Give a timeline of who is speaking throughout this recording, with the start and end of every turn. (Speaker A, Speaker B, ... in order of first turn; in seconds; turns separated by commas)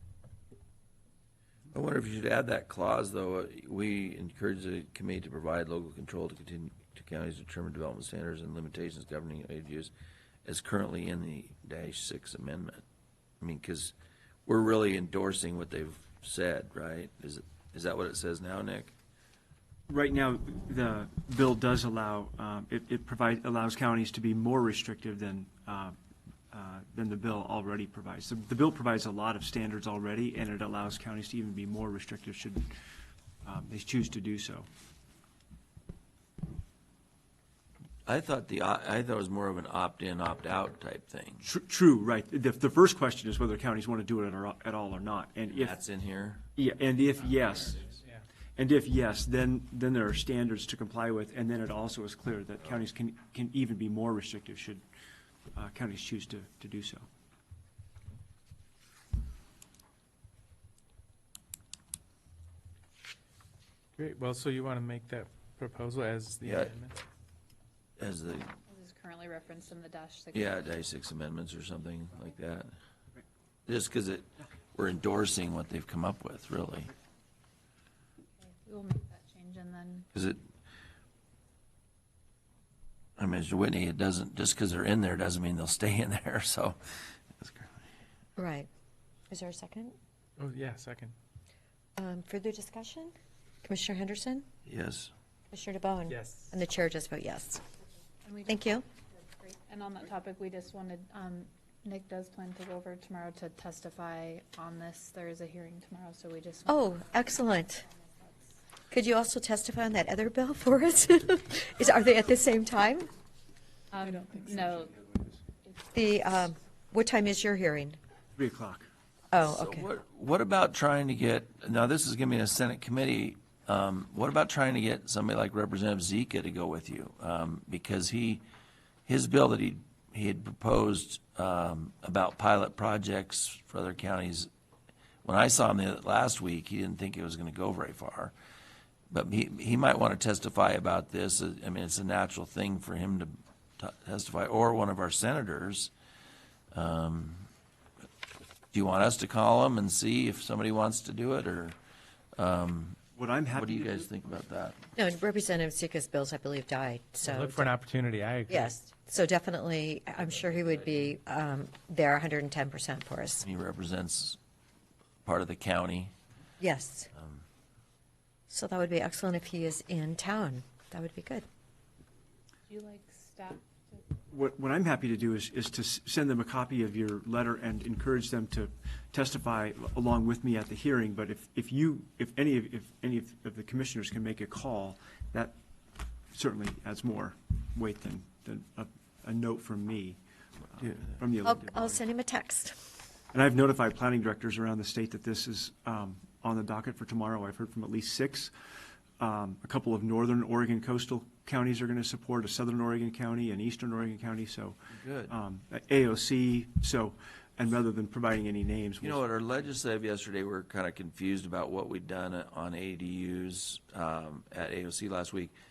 Speaker A: 1.7-9.9, Speaker A: 10.4-12.8, Speaker A: 13.4-13.9, Speaker A: 14.5-18.9, Speaker B: 19.9-26.0, Speaker B: 26.5-32.7, Speaker B: 33.4-34.7, Speaker A: 38.1-41.5, Speaker B: 41.4-45.8, Speaker A: 45.6-46.5, Speaker B: 46.6-48.0, Speaker B: 48.6-54.8, Speaker B: 55.5-57.1, Speaker C: 64.0-67.0, Speaker A: 66.4-66.7, Speaker A: 68.0-68.5, Speaker D: 68.7-70.6, Speaker A: 70.3-72.7, Speaker A: 73.7-76.9, Speaker D: 78.4-80.1, Speaker A: 80.1-80.4, Speaker A: 83.2-87.8, Speaker E: 88.4-88.7, Speaker E: 89.3-90.0, Speaker C: 90.4-91.2, Speaker E: 92.0-93.1, Speaker E: 93.6-94.5, Speaker A: 94.7-95.1, Speaker E: 95.5-97.6, Speaker C: 96.1-96.6, Speaker D: 98.2-108.6, Speaker E: 98.5-98.8, Speaker E: 106.7-107.8, Speaker E: 108.9-113.1, Speaker D: 113.9-115.0, Speaker C: 114.0-114.5, Speaker B: 114.6-115.4, Speaker E: 115.9-118.0, Speaker B: 118.4-118.9, Speaker E: 119.3-119.9, Speaker A: 119.4-128.4, Speaker A: 129.1-134.5, Speaker A: 135.2-138.3, Speaker A: 139.1-145.9, Speaker A: 146.7-147.5, Speaker A: 148.7-151.8, Speaker A: 152.4-154.8, Speaker B: 153.2-154.1, Speaker E: 155.0-157.8, Speaker C: 157.2-158.8, Speaker E: 158.5-163.4, Speaker A: 160.3-161.1, Speaker A: 163.4-164.4, Speaker A: 165.2-166.1, Speaker E: 166.6-167.1, Speaker A: 167.1-167.4, Speaker E: 168.5-171.5, Speaker D: 172.7-174.0, Speaker B: 174.3-185.6, Speaker B: 186.3-190.2, Speaker B: 190.7-192.0, Speaker A: 190.8-191.1, Speaker E: 191.4-192.9, Speaker B: 193.3-198.5, Speaker B: 199.2-209.2, Speaker A: 204.9-205.3, Speaker A: 209.0-215.5